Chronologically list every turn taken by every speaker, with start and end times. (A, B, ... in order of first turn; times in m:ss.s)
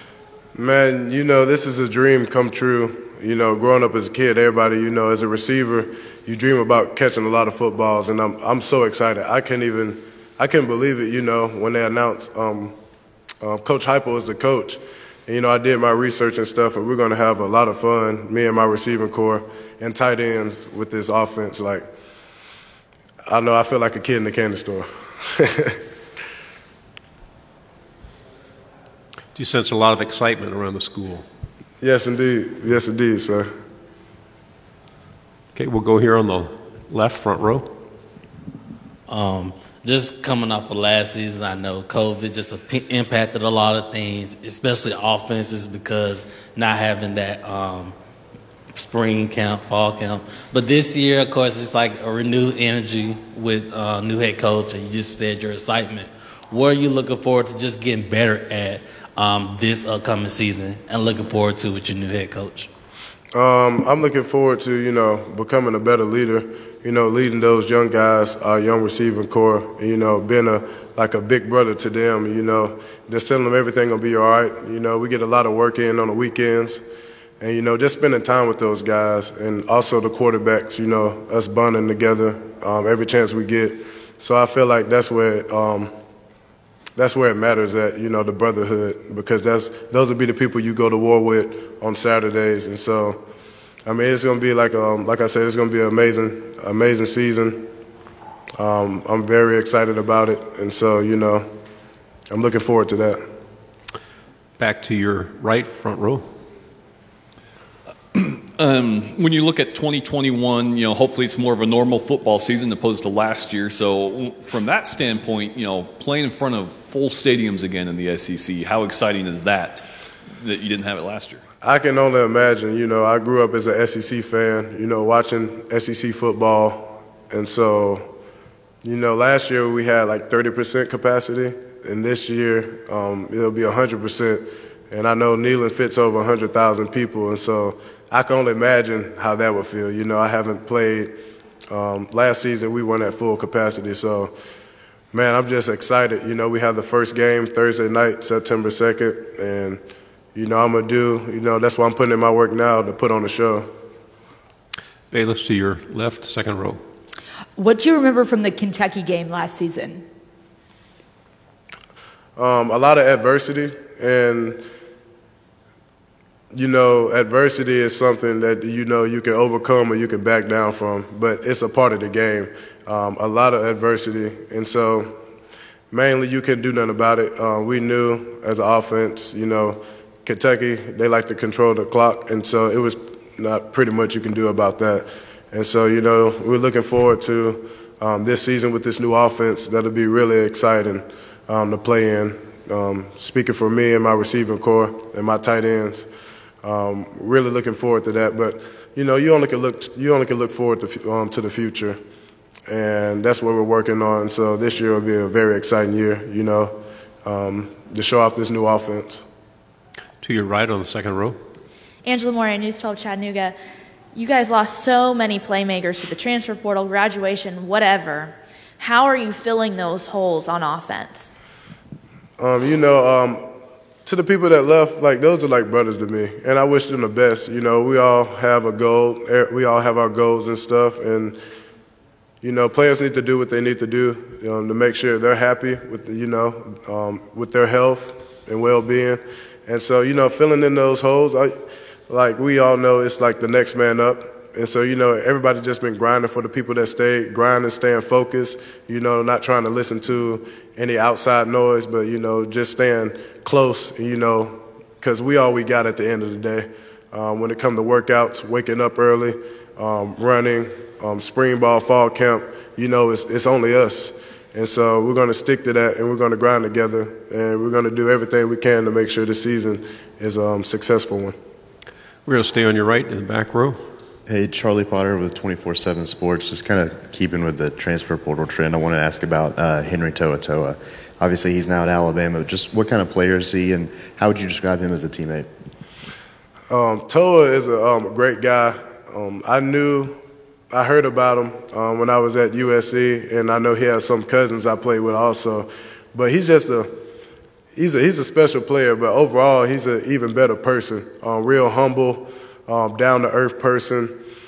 0:00.5-0:12.8 A
0:13.4-0:21.9 A
0:23.2-0:25.8 A
0:29.3-0:31.2 B
0:31.8-0:33.5 A
0:35.5-0:37.7 B
0:39.1-0:47.9 C
0:48.7-1:02.7 C
1:03.3-1:16.8 A
1:17.4-1:25.9 A
1:27.0-1:33.2 A
1:33.8-1:37.6 A
1:38.6-1:41.5 A
1:42.3-1:43.2 A
1:44.6-1:46.2 B
1:48.1-1:59.8 D
2:00.4-2:01.4 D
2:01.6-2:08.1 A
2:08.8-2:21.1 A
2:21.7-2:24.3 A
2:25.1-2:29.8 A
2:30.3-2:33.7 A
2:35.1-2:36.8 B
2:37.6-2:40.0 E
2:42.4-2:44.6 A
2:46.5-2:55.1 A
2:55.9-3:16.1 A
3:16.6-3:22.0 A
3:22.7-3:29.2 A
3:30.2-3:31.4 B
3:32.0-3:33.6 F
3:34.1-3:41.3 F
3:42.4-3:43.5 A
3:44.0-3:51.4 A
3:52.4-4:01.6 A
4:02.1-4:31.4 A
4:32.2-4:33.8 B
4:34.3-4:45.5 G
4:46.7-4:50.2 A
4:50.7-4:56.9 A
4:57.7-5:04.2 A